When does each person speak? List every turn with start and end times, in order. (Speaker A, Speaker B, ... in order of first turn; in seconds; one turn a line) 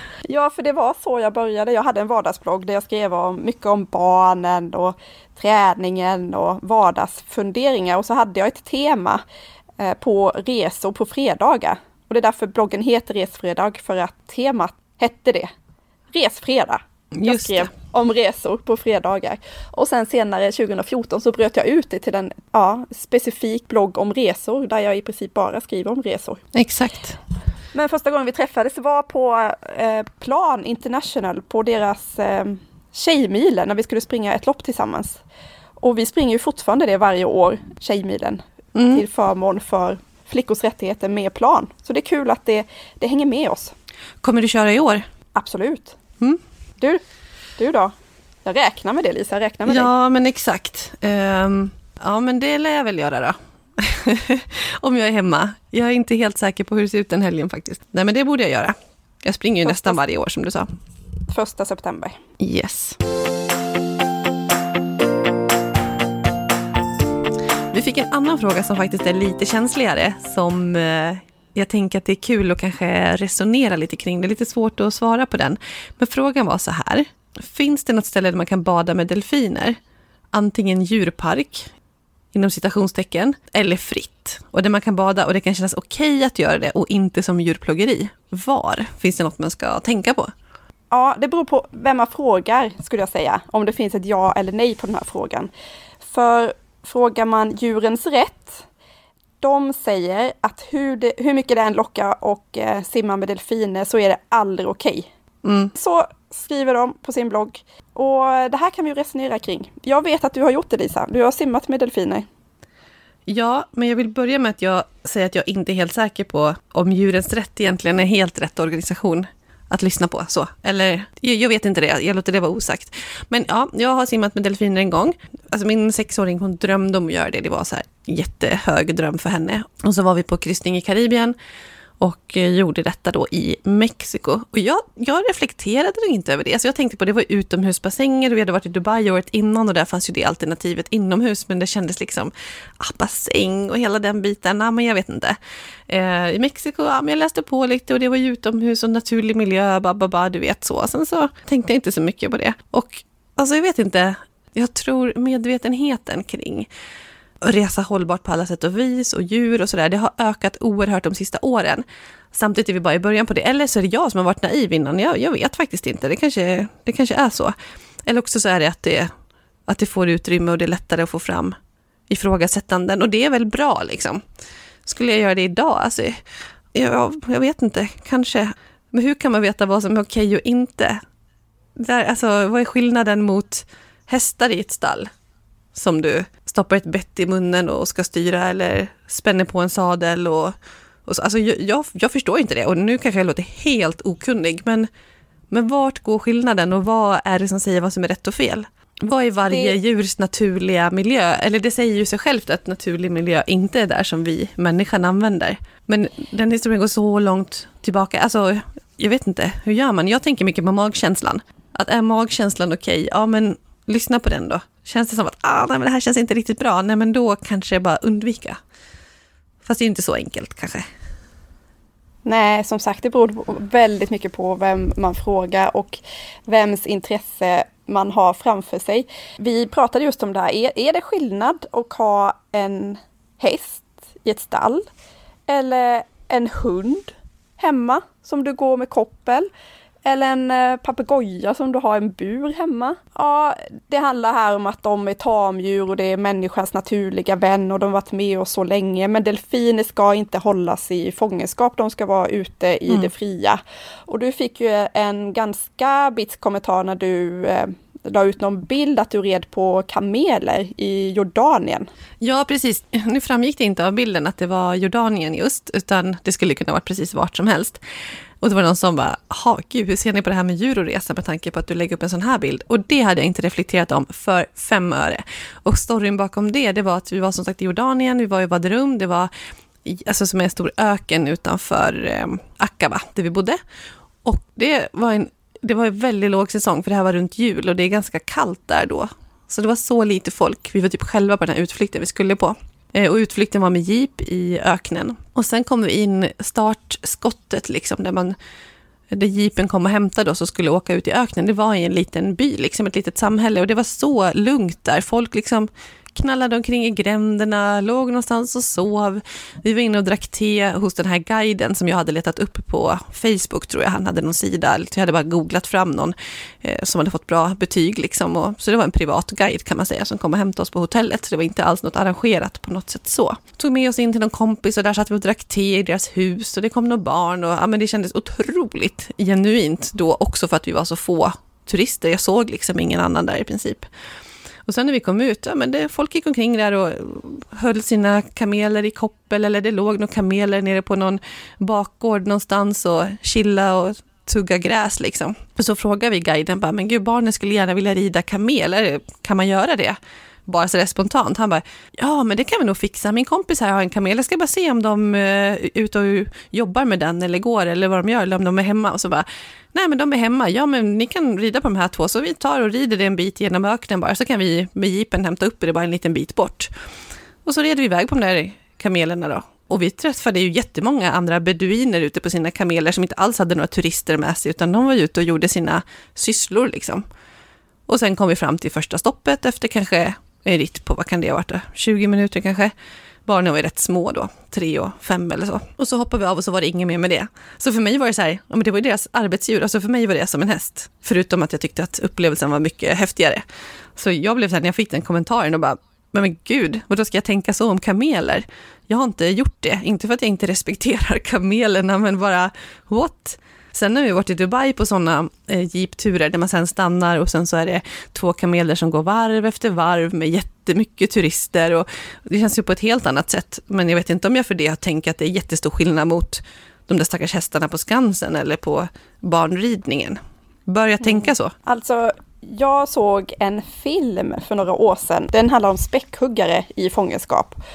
Speaker A: 0.3-9.2
Speaker A: 9.8-15.5
Speaker A: 16.1-26.4
Speaker B: 17.1-17.7
Speaker B: 26.5-27.2
Speaker A: 27.7-35.2
Speaker A: 35.8-43.7
Speaker B: 38.8-39.0
Speaker B: 44.2-45.0
Speaker A: 45.3-46.0
Speaker A: 47.6-47.9
Speaker A: 48.5-49.9
Speaker B: 49.7-60.7
Speaker A: 59.6-60.0
Speaker A: 61.3-62.2
Speaker B: 62.4-63.0
Speaker B: 67.7-79.8
Speaker B: 80.3-81.7
Speaker B: 82.3-90.3
Speaker A: 90.9-95.5
Speaker A: 96.0-98.7
Speaker A: 99.4-105.1
Speaker B: 105.4-105.7
Speaker A: 105.7-112.3
Speaker B: 113.3-131.4
Speaker B: 132.0-145.4
Speaker B: 145.9-156.7
Speaker B: 157.4-167.5
Speaker B: 168.1-169.1
Speaker B: 169.7-171.6
Speaker B: 172.1-174.2
Speaker B: 174.9-176.2
Speaker B: 176.7-181.0
Speaker B: 181.8-185.1
Speaker B: 185.7-190.5
Speaker B: 191.1-194.9
Speaker B: 195.5-218.6
Speaker A: 199.5-199.8
Speaker B: 219.7-220.8
Speaker A: 222.2-234.8
Speaker A: 235.5-239.5
Speaker A: 240.1-261.9
Speaker B: 262.2-267.8
Speaker B: 268.4-279.3
Speaker B: 279.9-283.6
Speaker B: 284.2-298.4
Speaker B: 299.1-333.9
Speaker B: 334.7-366.7
Speaker B: 367.4-377.0
Speaker B: 377.9-382.7
Speaker B: 383.3-393.4
Speaker B: 394.0-421.5
Speaker A: 421.7-427.6